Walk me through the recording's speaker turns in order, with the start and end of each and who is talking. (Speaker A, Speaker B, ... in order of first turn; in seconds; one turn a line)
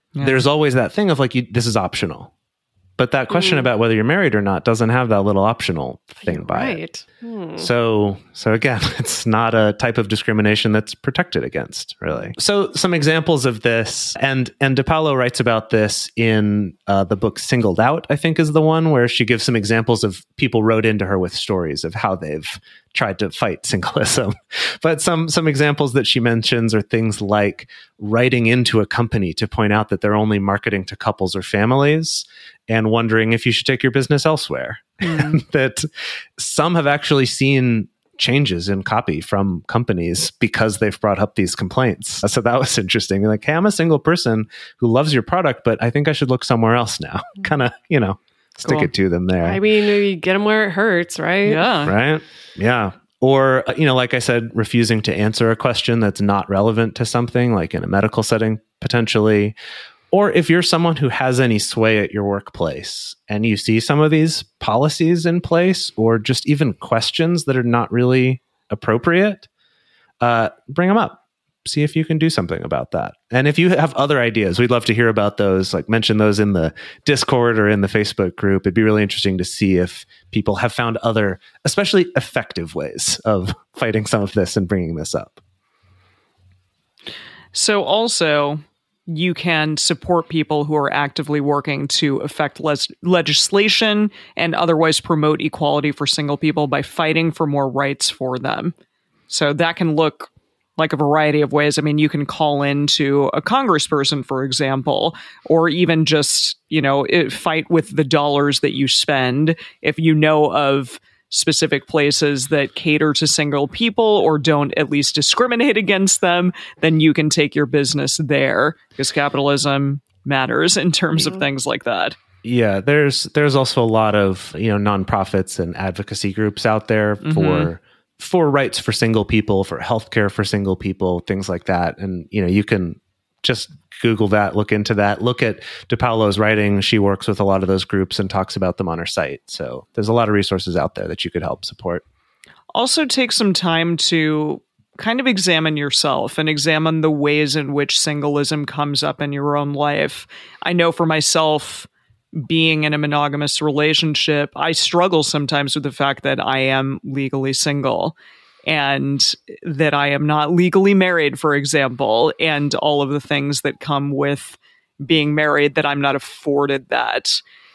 Speaker A: 0.1-0.5
Speaker B: 0.2-2.3
Speaker B: 3.0-6.8
Speaker C: 3.3-3.7
Speaker C: 6.2-7.7
Speaker B: 7.6-49.6
Speaker A: 35.0-35.4
Speaker A: 48.6-48.9
Speaker C: 49.4-51.7
Speaker A: 51.4-51.9
Speaker B: 51.8-59.5
Speaker B: 60.1-69.5
Speaker B: 70.2-85.4
Speaker A: 87.5-98.7
Speaker A: 99.3-122.2
Speaker C: 121.2-121.5
Speaker B: 122.4-142.0
Speaker A: 127.2-127.7
Speaker A: 142.7-158.1
Speaker A: 158.7-167.4